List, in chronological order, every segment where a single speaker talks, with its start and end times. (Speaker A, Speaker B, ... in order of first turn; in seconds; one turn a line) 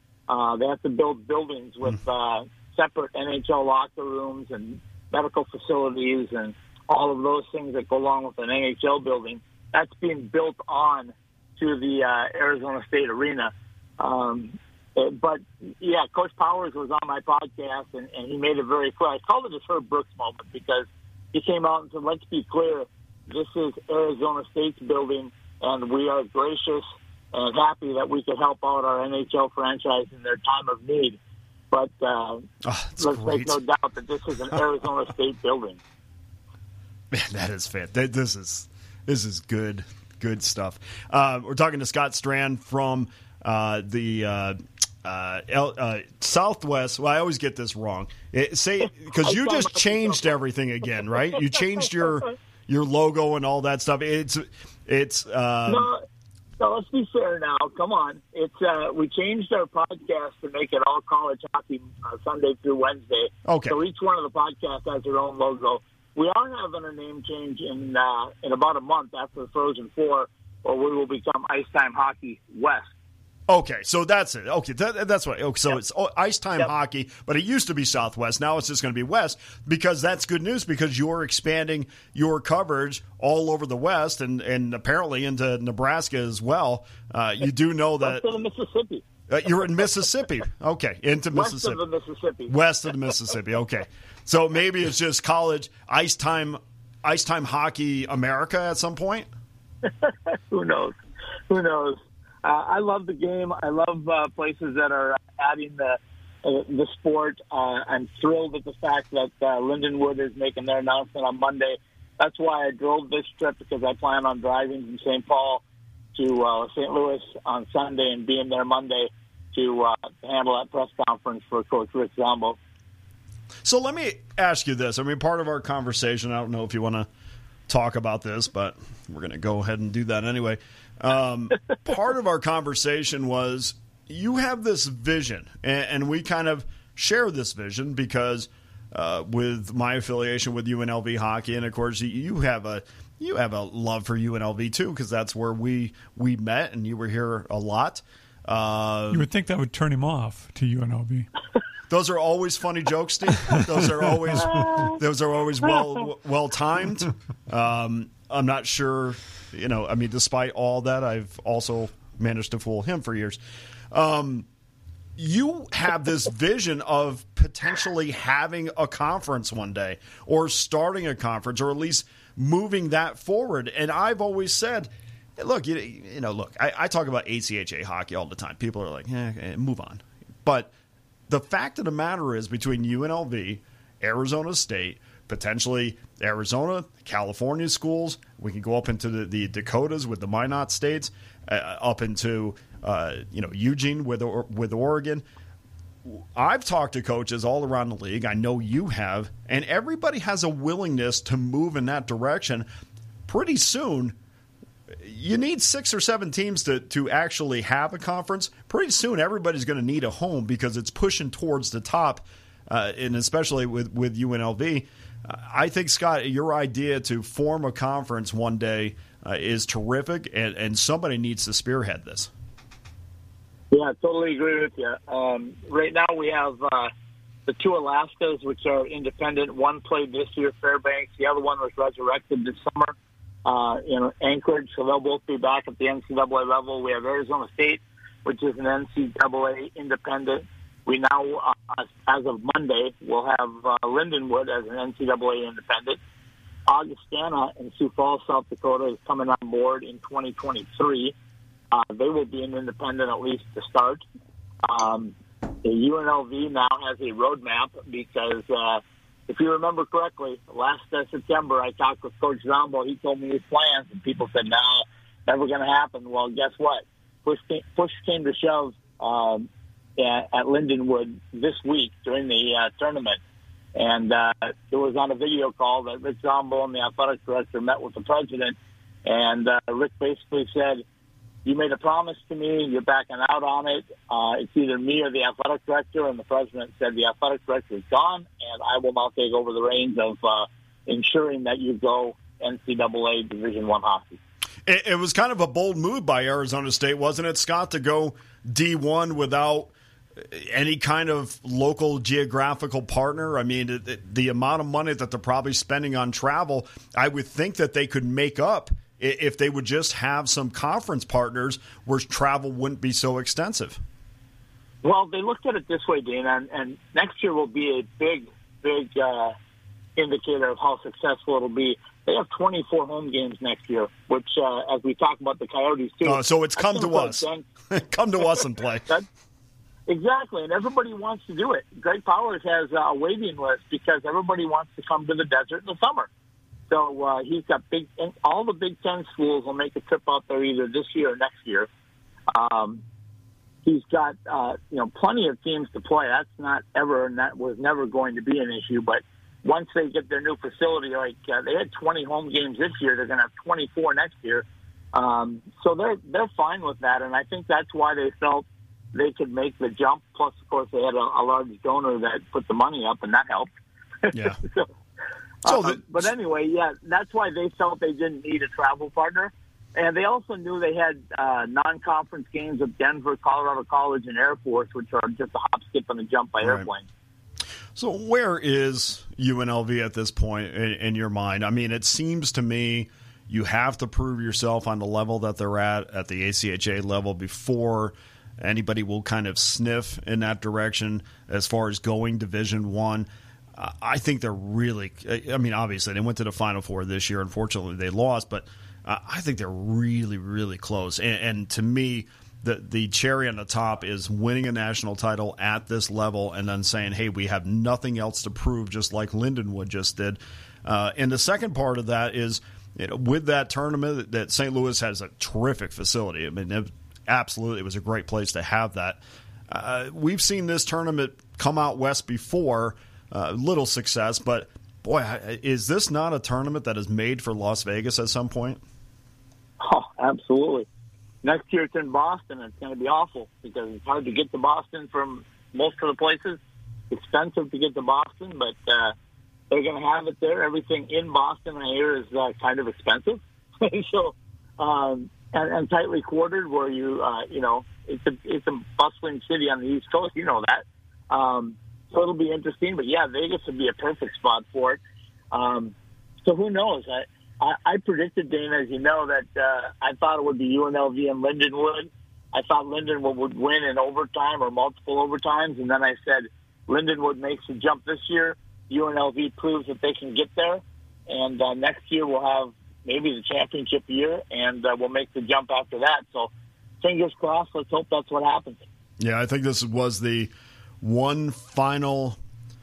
Speaker A: 0.3-31.2
Speaker A: 31.7-32.5
Speaker B: 32.6-33.6
Speaker A: 33.0-35.8
Speaker B: 37.1-55.9
Speaker A: 49.2-50.2
Speaker A: 55.7-56.0
Speaker A: 56.6-72.9
Speaker B: 63.5-63.8
Speaker B: 73.5-88.3
Speaker A: 88.0-89.0
Speaker B: 89.3-91.8
Speaker A: 91.3-92.5
Speaker B: 92.5-99.3
Speaker A: 99.8-101.0
Speaker A: 101.5-115.6
Speaker A: 116.1-122.6
Speaker B: 123.6-127.1
Speaker B: 127.7-149.3
Speaker C: 149.1-151.3
Speaker B: 151.9-163.4
Speaker B: 163.9-164.5
Speaker B: 165.2-180.7
Speaker B: 181.3-195.2
Speaker B: 196.1-202.7
Speaker B: 203.3-204.2
Speaker B: 205.0-222.3
Speaker A: 223.7-226.9
Speaker A: 227.5-246.0
Speaker A: 246.7-251.1
Speaker A: 251.7-254.0
Speaker A: 254.6-273.2
Speaker A: 273.8-280.8
Speaker A: 281.4-294.2
Speaker B: 294.6-313.8
Speaker A: 314.8-319.3
Speaker A: 319.9-327.4
Speaker B: 326.0-328.9
Speaker A: 329.9-336.1
Speaker A: 336.7-341.7
Speaker A: 342.3-342.8
Speaker A: 343.6-363.5
Speaker A: 364.1-364.7
Speaker B: 364.1-364.4
Speaker A: 365.4-376.9
Speaker B: 365.4-366.0
Speaker B: 376.4-376.7
Speaker B: 377.7-428.6
Speaker A: 429.6-430.7
Speaker A: 431.2-436.4
Speaker A: 436.9-438.9
Speaker A: 439.5-454.8
Speaker A: 455.3-455.7
Speaker A: 456.2-476.3
Speaker A: 476.8-478.6
Speaker B: 479.0-480.3
Speaker B: 480.8-482.2